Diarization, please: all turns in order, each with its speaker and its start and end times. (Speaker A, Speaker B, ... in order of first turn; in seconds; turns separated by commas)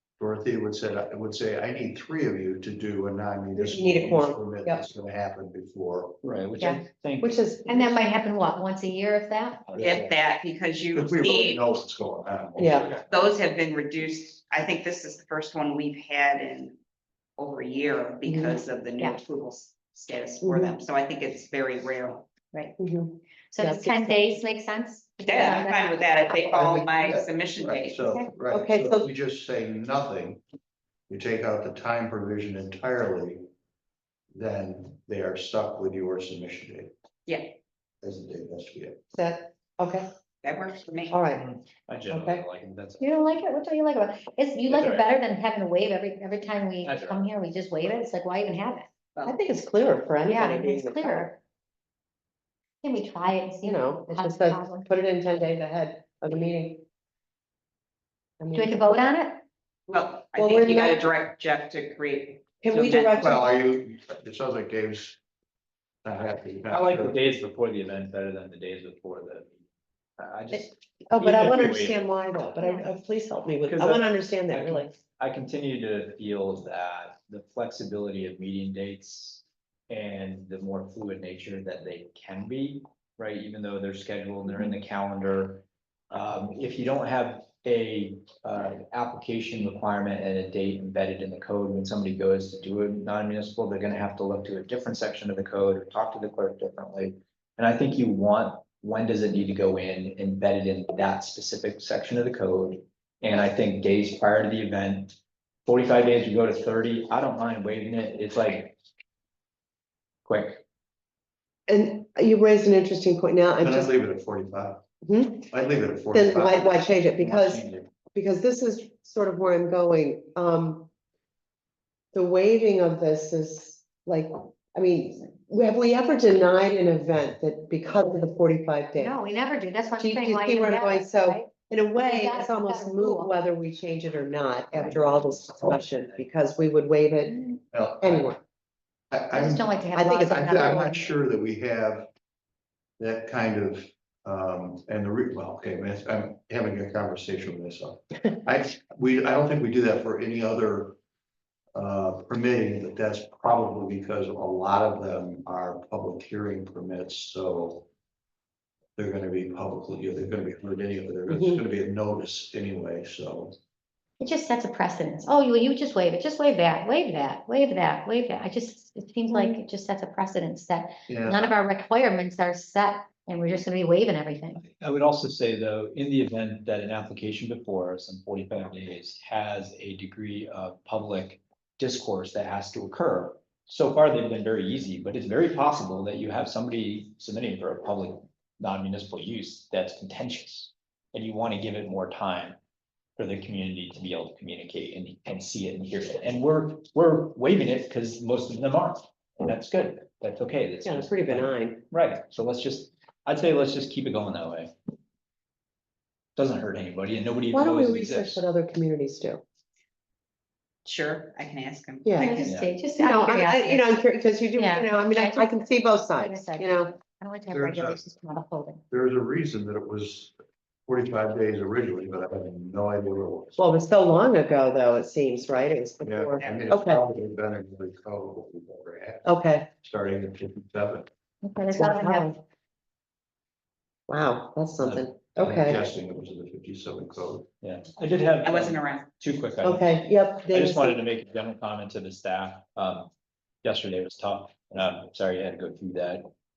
Speaker A: 0.2-6.2, Speaker B: 3.5-4.8, Speaker C: 6.2-7.4, Speaker B: 6.6-8.0, Speaker D: 7.6-9.7, Speaker C: 9.7-9.9, Speaker A: 9.7-10.1, Speaker E: 9.8-11.6, Speaker A: 10.9-13.3, Speaker B: 12.6-12.9, Speaker E: 13.1-16.8, Speaker E: 17.4-22.3, Speaker B: 18.2-18.6, Speaker B: 20.4-20.8, Speaker D: 22.5-22.8, Speaker B: 22.8-24.2, Speaker D: 23.5-26.3, Speaker E: 25.2-28.1, Speaker A: 26.5-30.4, Speaker B: 28.5-29.1, Speaker A: 31.1-33.5, Speaker A: 34.3-36.9, Speaker E: 37.2-37.6, Speaker A: 38.0-39.0, Speaker B: 39.1-40.1, Speaker E: 40.4-41.2, Speaker B: 41.1-41.4, Speaker C: 41.3-43.0, Speaker B: 42.1-42.4, Speaker D: 43.0-48.9, Speaker C: 44.7-45.0, Speaker C: 46.8-47.2, Speaker B: 49.2-51.4, Speaker D: 50.2-51.4, Speaker D: 52.8-54.9, Speaker B: 53.6-56.8, Speaker B: 58.4-58.8, Speaker D: 58.5-59.4, Speaker E: 59.9-63.4, Speaker B: 59.9-61.0, Speaker B: 62.6-63.5, Speaker A: 63.2-65.2, Speaker A: 66.0-67.2, Speaker C: 66.7-69.5, Speaker C: 70.2-72.0, Speaker B: 70.5-74.9, Speaker D: 72.6-72.9, Speaker C: 73.7-108.7, Speaker C: 110.2-110.6, Speaker B: 111.7-113.9, Speaker A: 113.6-114.8, Speaker B: 115.0-115.5, Speaker A: 115.5-117.9, Speaker B: 116.1-120.9, Speaker B: 122.1-129.2, Speaker D: 129.0-133.3, Speaker B: 130.0-138.4, Speaker A: 137.7-138.3, Speaker A: 139.1-142.1, Speaker D: 139.3-141.0, Speaker B: 139.9-140.9, Speaker A: 143.0-150.9, Speaker A: 151.7-157.8, Speaker A: 159.0-163.6, Speaker B: 161.3-161.6, Speaker D: 164.2-174.6, Speaker A: 171.1-171.5, Speaker C: 174.6-192.6, Speaker C: 193.2-204.7, Speaker B: 200.8-201.8, Speaker C: 206.3-208.4, Speaker B: 207.5-209.4, Speaker E: 210.8-212.6, Speaker B: 212.0-216.9, Speaker D: 212.2-213.9, Speaker D: 214.5-218.8, Speaker A: 217.5-218.0, Speaker A: 218.9-220.3, Speaker A: 220.9-223.7, Speaker B: 223.6-227.0, Speaker A: 226.0-231.1, Speaker B: 229.2-229.7, Speaker D: 231.4-232.3, Speaker B: 231.7-232.4, Speaker B: 234.1-235.8, Speaker C: 234.8-235.1, Speaker A: 235.4-237.5, Speaker C: 237.6-243.1, Speaker E: 238.4-239.1, Speaker B: 239.6-241.0, Speaker C: 243.6-246.3